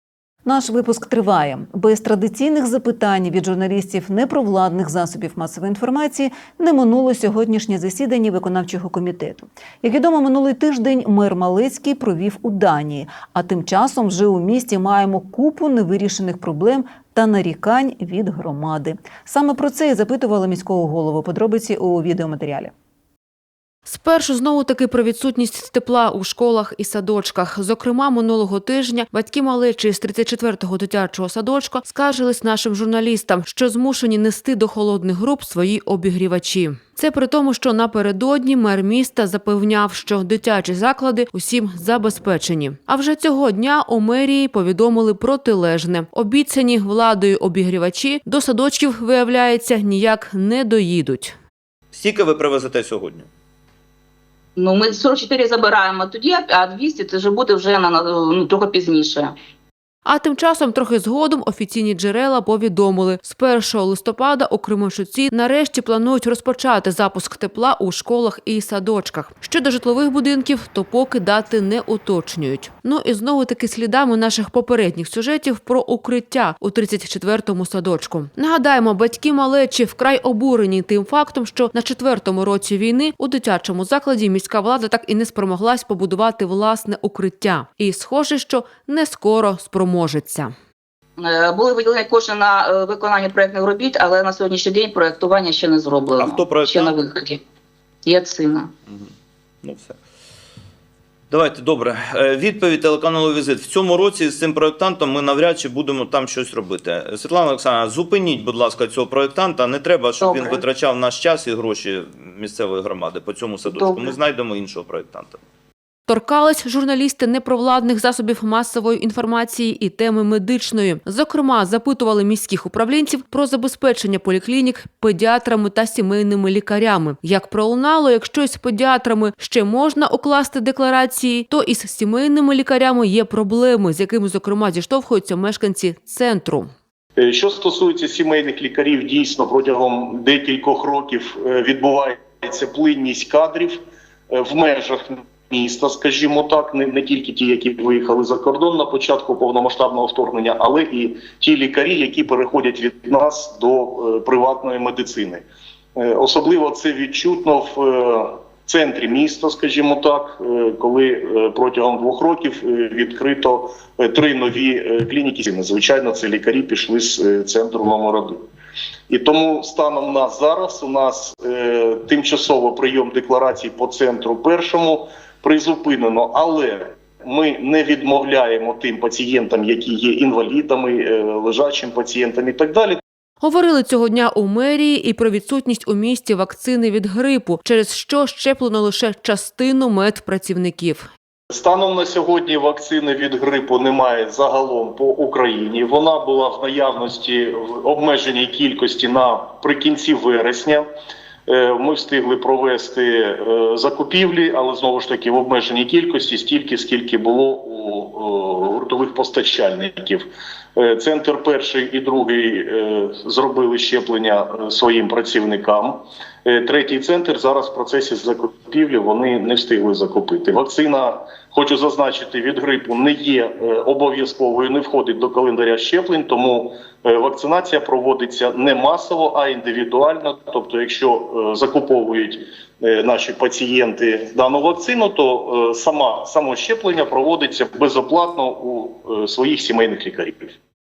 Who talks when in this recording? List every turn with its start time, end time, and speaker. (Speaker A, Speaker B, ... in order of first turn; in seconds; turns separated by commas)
Speaker A: 0.5-22.7, Speaker B: 23.9-51.4, Speaker C: 51.9-53.3, Speaker D: 54.6-59.3, Speaker B: 60.0-90.5, Speaker D: 91.2-97.4, Speaker C: 96.2-97.0, Speaker D: 98.1-98.7, Speaker C: 99.6-100.0, Speaker C: 101.3-115.4, Speaker D: 110.2-110.7, Speaker D: 113.7-114.2, Speaker B: 116.1-136.7, Speaker E: 137.2-155.4, Speaker E: 156.0-168.5, Speaker E: 169.1-183.0, Speaker B: 183.4-191.1, Speaker E: 191.5-200.9, Speaker E: 201.5-240.6